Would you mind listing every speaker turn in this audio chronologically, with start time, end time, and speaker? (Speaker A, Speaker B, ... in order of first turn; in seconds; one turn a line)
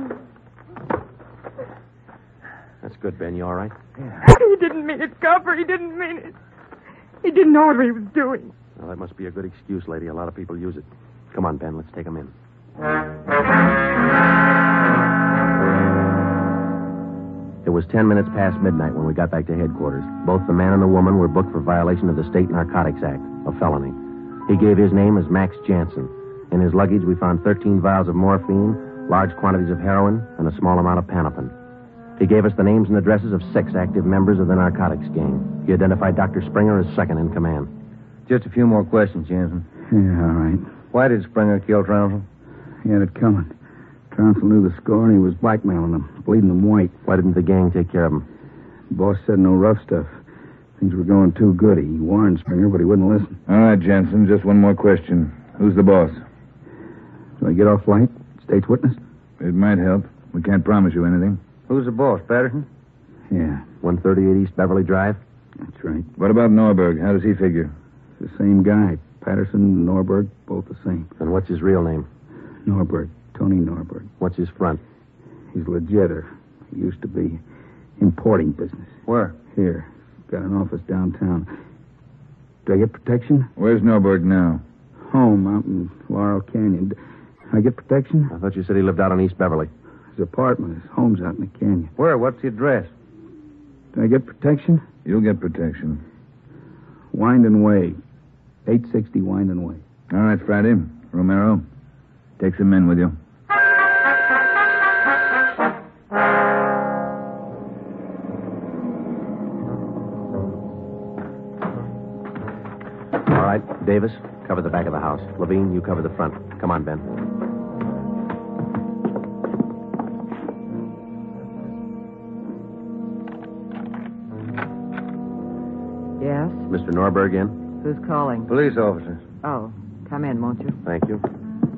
Speaker A: 2.8-3.7
Speaker B: 4.0-4.2
Speaker C: 4.2-6.3
Speaker C: 7.2-8.5
Speaker A: 8.8-12.3
Speaker A: 17.6-24.0
Speaker A: 24.5-31.5
Speaker A: 32.2-37.7
Speaker B: 38.3-39.7
Speaker D: 39.9-40.8
Speaker B: 40.9-42.3
Speaker D: 42.8-43.5
Speaker D: 44.1-46.9
Speaker A: 47.1-48.3
Speaker D: 48.9-50.2
Speaker D: 50.8-53.4
Speaker E: 53.5-56.2
Speaker D: 57.4-59.0
Speaker E: 59.4-61.4
Speaker B: 61.7-62.7
Speaker D: 63.3-63.6
Speaker A: 63.8-65.2
Speaker D: 65.6-66.1
Speaker E: 66.2-67.7
Speaker D: 68.2-71.1
Speaker A: 71.2-72.1
Speaker D: 72.7-74.1
Speaker A: 74.2-74.8
Speaker D: 75.5-77.4
Speaker D: 78.0-81.5
Speaker B: 79.1-79.4
Speaker D: 82.7-83.5
Speaker E: 83.6-84.6
Speaker D: 85.0-87.0
Speaker D: 87.5-88.3
Speaker A: 88.3-89.7
Speaker D: 90.2-91.9
Speaker B: 92.0-92.9
Speaker D: 93.9-94.9
Speaker E: 95.0-96.0
Speaker D: 97.1-98.0
Speaker D: 98.7-99.8
Speaker E: 100.1-101.7
Speaker E: 102.4-103.2
Speaker A: 113.2-117.1
Speaker F: 126.2-126.7
Speaker A: 126.7-127.6
Speaker F: 127.8-128.5
Speaker B: 128.5-129.3
Speaker F: 129.4-130.8
Speaker A: 130.8-131.2